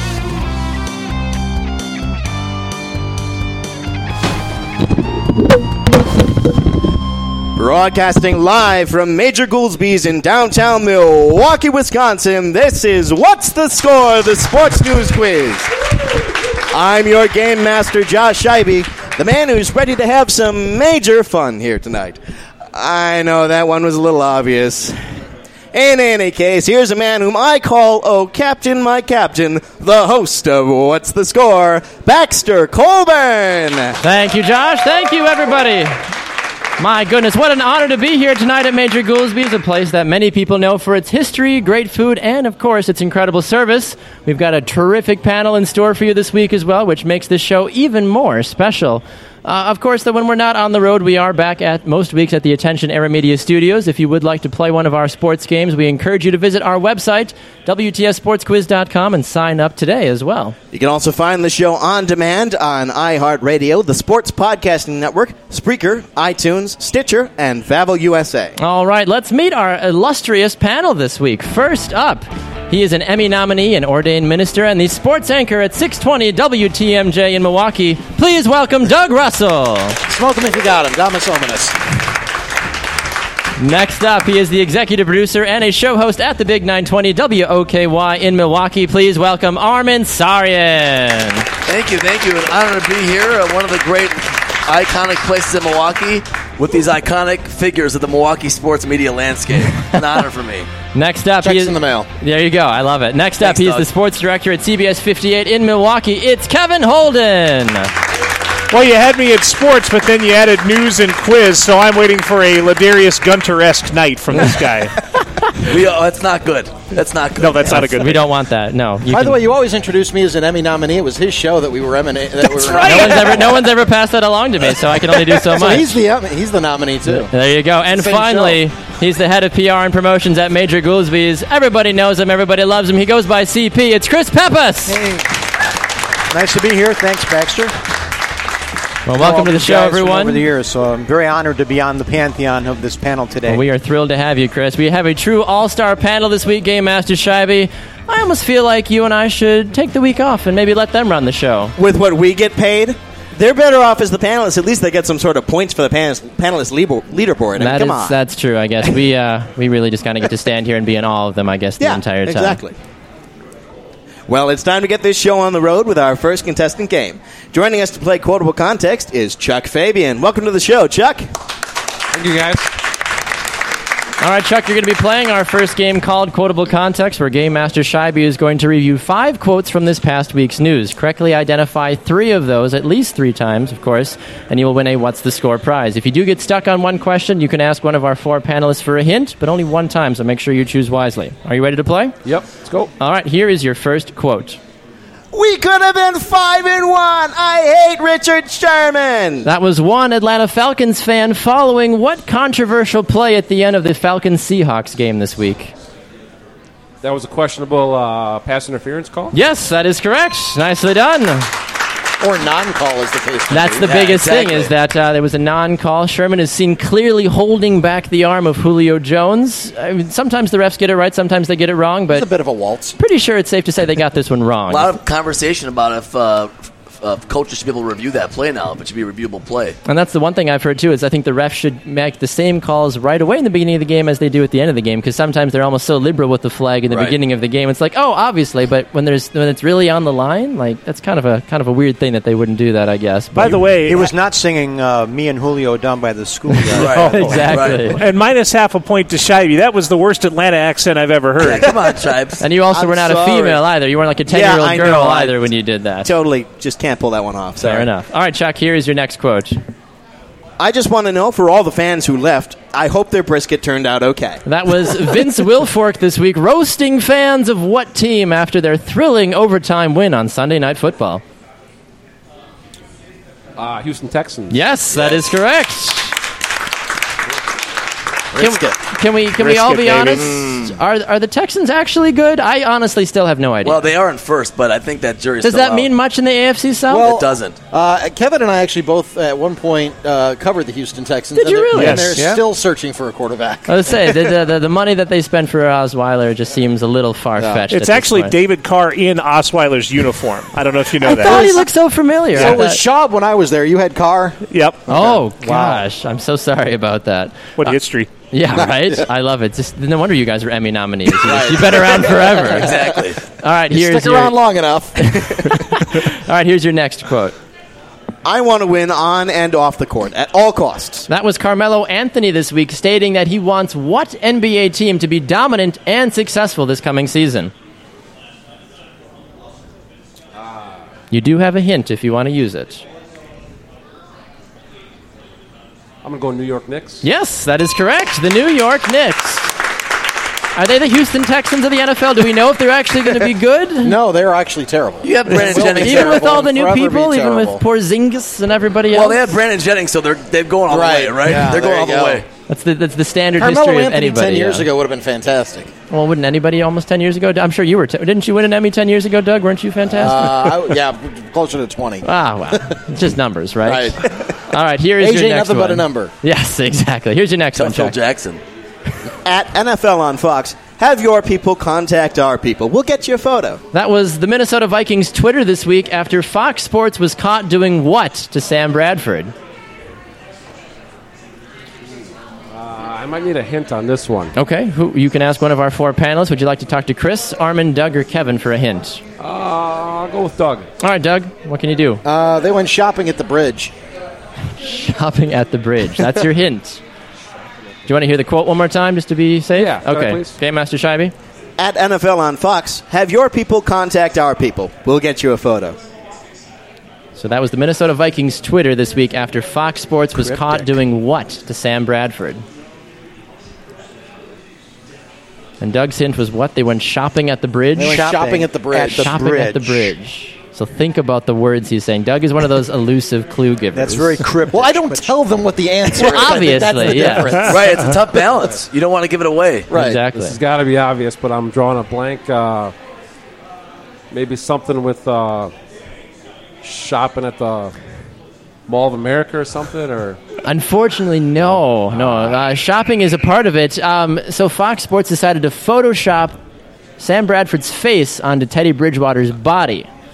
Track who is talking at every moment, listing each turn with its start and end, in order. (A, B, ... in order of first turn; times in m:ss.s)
0:07.5-0:15.7 A
0:16.7-0:22.2 A
0:22.7-0:25.0 A
0:25.7-0:34.0 A
0:34.0-0:36.0 B
0:36.8-1:00.6 B
1:00.7-1:08.6 A
1:08.6-1:20.0 B
1:20.0-1:21.8 C
1:23.6-1:31.5 B
1:31.6-1:40.7 D
1:40.9-1:47.9 B
1:41.4-1:42.1 C
1:43.4-1:43.9 D
1:48.7-1:54.9 E
1:55.6-1:58.1 D
1:57.4-1:58.2 E
1:57.7-1:59.4 B
1:59.1-2:03.3 C
2:02.4-2:03.6 E
2:02.8-2:06.0 B
2:05.5-2:07.3 C
2:07.3-2:15.0 B
2:07.9-2:08.6 C
2:14.9-2:15.2 F
2:16.3-2:17.8 F
2:19.0-2:20.4 B
2:19.2-2:23.6 F
2:23.4-2:31.7 B
2:31.8-2:38.2 A
2:37.6-2:42.6 B
2:41.8-2:42.7 A
2:44.3-2:51.3 A
2:52.1-2:52.7 G
2:54.2-3:12.2 B
3:12.2-3:12.9 G
3:13.0-3:14.6 B
3:15.3-3:19.5 A
3:19.4-3:25.7 B
3:27.0-3:29.3 G
3:29.3-3:31.5 B
3:32.2-3:33.9 C
3:33.5-3:42.3 B
3:33.8-3:34.7 D
3:42.1-3:43.0 C
3:43.0-3:44.9 B
3:44.7-3:49.8 D
3:49.8-4:04.0 B
3:56.9-3:57.2 D
4:03.3-4:04.1 E
4:03.8-4:07.6 F
4:06.8-4:07.9 D
4:06.8-4:08.0 B
4:07.9-4:11.8 E
4:11.4-4:12.4 D
4:12.4-4:16.1 B
4:12.8-4:13.6 A
4:14.3-4:15.4 A
4:16.0-4:17.9 A
4:17.6-4:19.6 B
4:20.6-4:24.4 A
4:24.4-4:31.2 B
4:33.6-4:34.6 G
4:34.5-4:36.2 B
4:38.4-4:43.9 B
4:39.4-4:40.6 E
4:43.6-4:45.9 D
4:45.4-4:47.1 B
4:46.9-4:54.1 C
4:46.9-4:47.6 D
4:51.3-4:52.1 B
4:51.7-4:52.2 E
4:52.2-4:52.4 F
4:53.7-4:58.3 B
4:57.4-4:57.7 C
4:57.7-5:01.5 E
5:01.0-5:02.8 B
5:01.2-5:01.6 C
5:02.3-5:05.7 C
5:02.4-5:02.6 E
5:04.5-5:04.9 E
5:04.9-5:07.5 B
5:07.6-5:08.1 E
5:08.3-5:14.4 B
5:08.6-5:09.0 C
5:11.2-5:12.8 C
5:12.5-5:13.2 D
5:13.7-5:15.6 C
5:15.0-5:17.3 B
5:18.2-5:21.1 A
5:21.1-5:27.5 B
5:30.4-5:30.8 G
5:31.1-5:32.8 B
5:36.0-5:37.0 G
5:37.0-5:39.5 B
5:40.6-5:44.0 B
5:43.8-5:47.6 C
5:45.0-5:46.3 D
5:45.5-5:49.2 B
5:48.9-5:52.2 D
5:50.7-5:52.2 C
5:52.5-5:54.7 B
5:53.4-5:55.7 C
5:55.9-6:00.6 B
6:00.0-6:02.6 C
6:02.0-6:08.0 B
6:03.6-6:04.4 C
6:05.0-6:06.1 C
6:07.5-6:08.4 D
6:09.2-6:13.6 A
6:13.7-6:19.3 B
6:22.5-6:24.3 G
6:24.4-6:29.0 B
6:29.2-6:30.7 G
6:30.8-6:32.0 B
6:32.0-6:33.7 C
6:34.6-6:36.8 B
6:37.8-6:41.1 B
6:39.6-6:40.4 G
6:41.6-6:45.8 A
6:47.2-6:52.4 B
6:50.2-6:50.7 F
6:55.6-6:58.0 B
6:57.8-6:59.2 C
6:57.8-7:00.0 F
6:58.8-7:04.2 B
7:03.7-7:05.1 F
7:04.5-7:08.4 C
7:06.0-7:07.4 B
7:07.4-7:09.7 D
7:09.7-7:10.0 C
7:09.7-7:10.4 B
7:10.1-7:12.7 G
7:14.1-7:15.5 G
7:16.6-7:17.7 G
7:18.7-7:20.2 G
7:20.4-7:26.4 B
7:27.0-7:29.9 B